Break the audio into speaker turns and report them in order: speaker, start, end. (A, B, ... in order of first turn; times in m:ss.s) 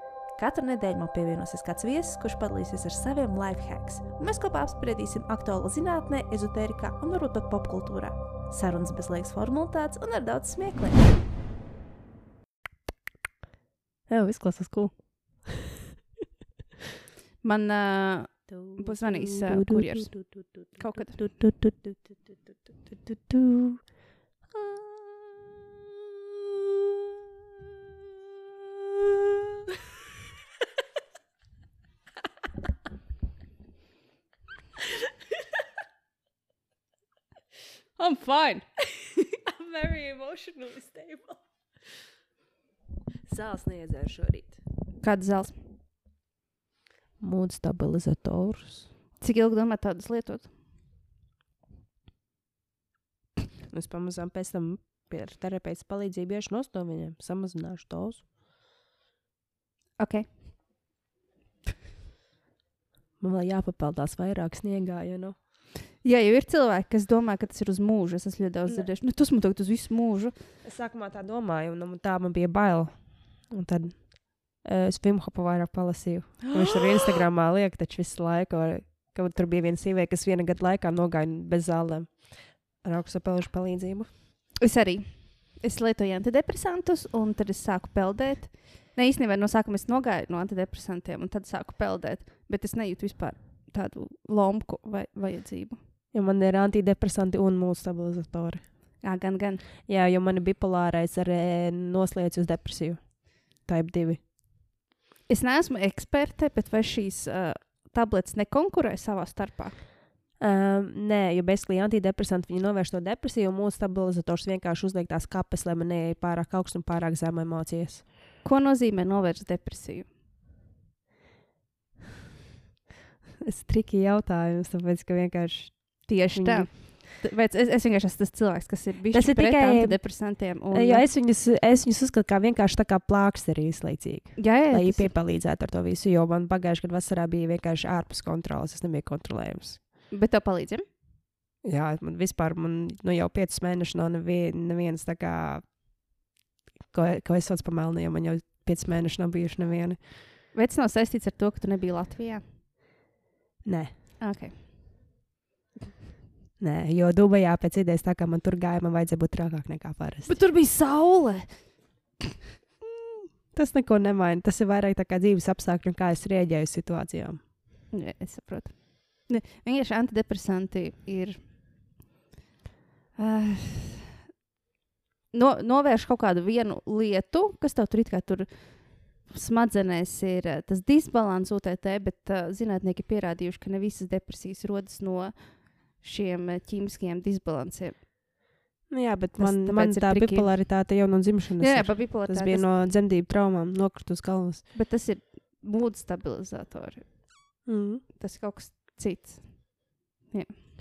0:00.4-0:11.2 A
0:14.1-0:15.0 B
0:17.4-0:21.3 C
0:18.5-0:22.3 B
0:22.8-0:23.8 B
0:24.6-0:25.5 B
0:38.0-0:38.6 C
0:39.3-0:41.4 B
0:43.3-0:44.6 B
0:45.0-0:45.6 C
0:47.2-0:48.9 B
0:49.2-0:50.5 C
0:53.7-0:58.2 B
1:00.0-1:00.4 C
1:03.2-1:05.4 B
1:06.0-1:10.4 C
1:10.6-1:24.1 B
1:24.6-1:35.8 C
1:36.1-1:38.7 B
1:39.0-1:39.6 C
1:39.9-1:44.2 B
1:45.3-1:49.8 C
1:50.4-1:58.1 B
1:58.4-2:00.1 C
2:03.4-2:06.7 B
2:06.1-2:11.1 C
2:09.1-2:19.8 B
2:14.4-2:15.1 C
2:20.1-2:20.8 C
2:21.6-2:25.8 B
2:26.9-2:30.1 B
2:30.5-2:32.4 C
2:33.6-2:33.9 B
2:34.2-2:34.6 C
2:36.6-2:40.4 B
2:40.3-2:42.0 C
2:43.5-2:47.4 B
2:47.9-2:51.9 C
2:53.2-2:54.1 C
2:55.3-3:08.5 C
3:08.9-3:14.6 B
3:09.4-3:10.9 C
3:11.6-3:12.7 C
3:14.7-3:20.6 C
3:17.7-3:18.0 B